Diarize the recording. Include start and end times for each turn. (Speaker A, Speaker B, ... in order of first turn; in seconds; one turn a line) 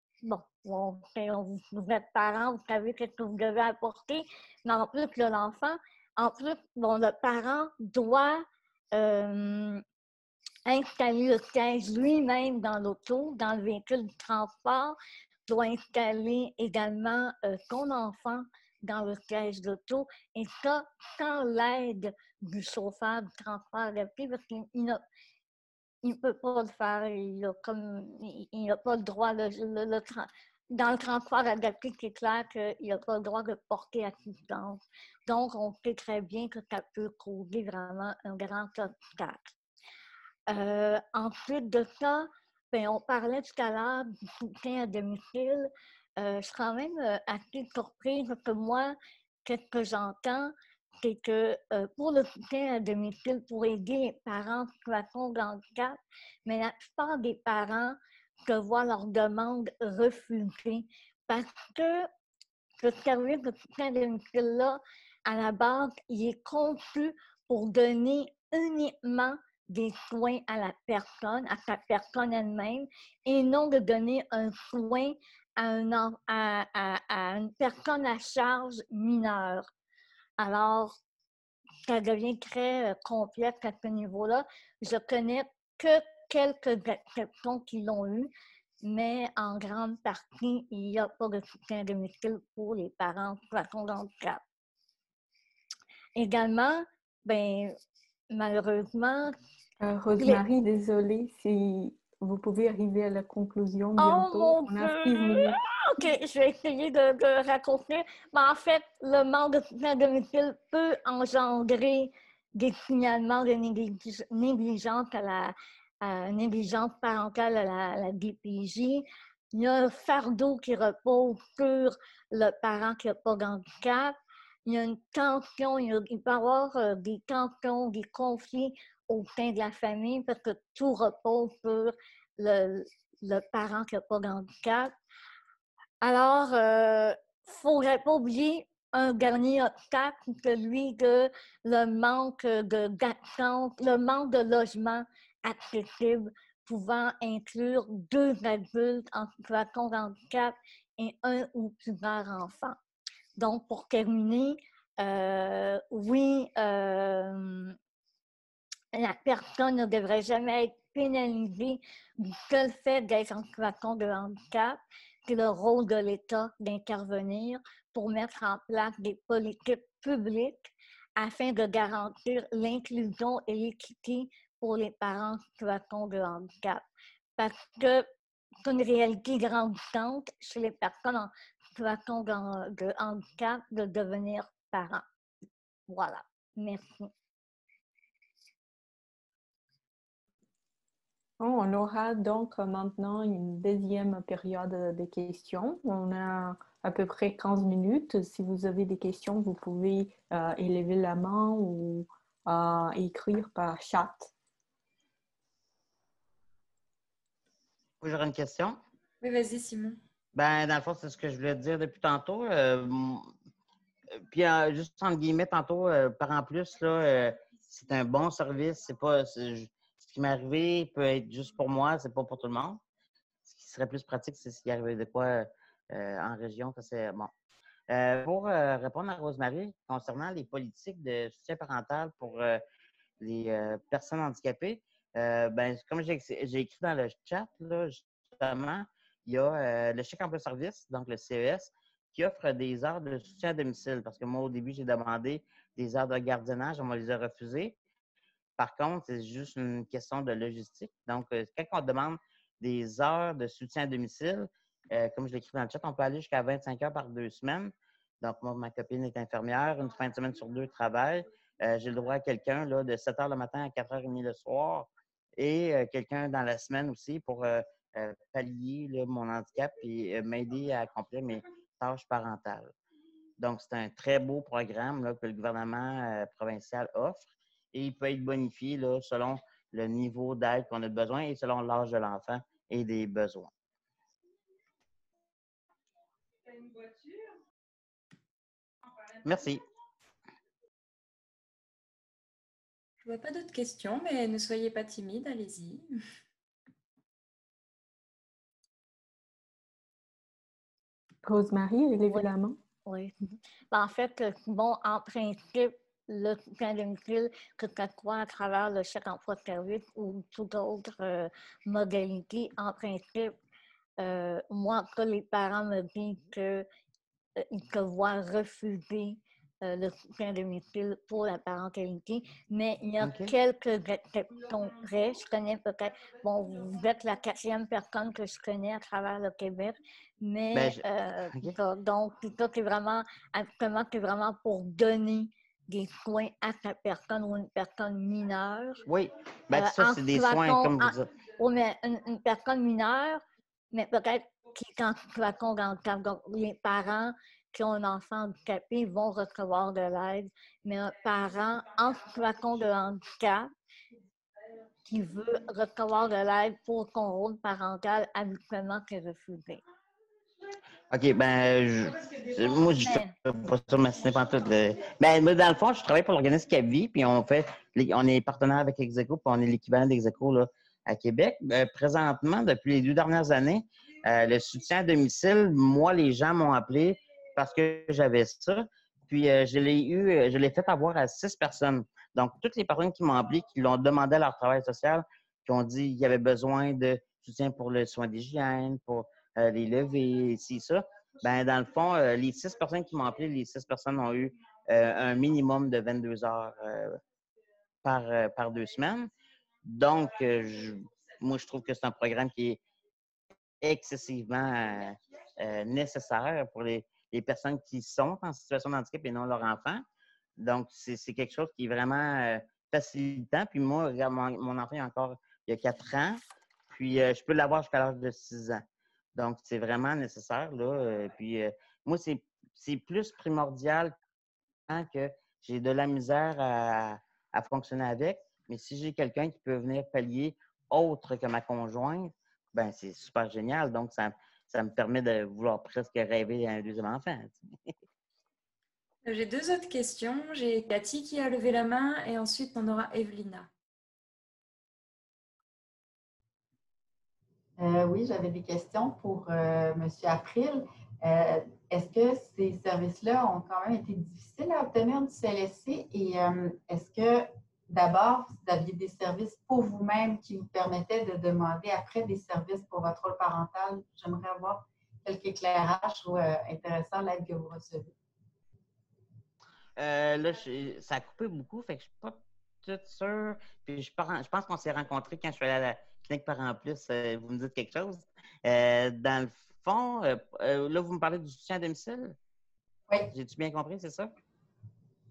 Speaker A: 0.2-9.8
Speaker A: 10.7-15.0
Speaker A: 15.5-25.0
Speaker A: 26.0-39.5
Speaker A: 40.5-48.9
Speaker A: 49.5-62.1
Speaker A: 62.8-79.7
Speaker A: 80.4-80.9
Speaker A: 81.9-88.3
Speaker A: 88.8-94.4
Speaker A: 96.2-97.7
Speaker A: 98.3-99.3
Speaker B: 99.8-105.6
Speaker A: 104.0-134.9
Speaker A: 136.0-152.8
Speaker A: 153.4-157.7
Speaker A: 158.9-176.8
Speaker A: 177.4-178.1
Speaker A: 178.6-185.0
Speaker A: 185.9-187.1
Speaker B: 191.4-204.3
Speaker C: 208.0-208.8
Speaker D: 209.2-210.0
Speaker C: 210.3-213.3
Speaker C: 214.3-222.8
Speaker C: 223.4-227.3
Speaker C: 227.9-232.6
Speaker C: 233.2-247.8
Speaker C: 248.6-272.7
Speaker C: 273.4-283.5
Speaker C: 289.2-289.6
Speaker D: 293.0-295.9
Speaker B: 301.2-302.6
Speaker A: 302.8-303.1
Speaker A: 303.7-313.3
Speaker A: 314.0-316.6
Speaker A: 317.4-338.8
Speaker C: 323.0-323.3
Speaker C: 330.5-331.6
Speaker C: 338.9-341.1
Speaker A: 339.5-353.5
Speaker A: 354.9-359.6
Speaker C: 360.9-397.0
Speaker A: 362.9-363.1
Speaker C: 397.8-399.1
Speaker C: 399.6-402.6
Speaker C: 403.6-409.8
Speaker C: 410.4-423.9
Speaker C: 424.7-437.4
Speaker D: 439.0-443.5
Speaker E: 447.6-467.9
Speaker C: 469.8-482.1
Speaker C: 483.1-484.1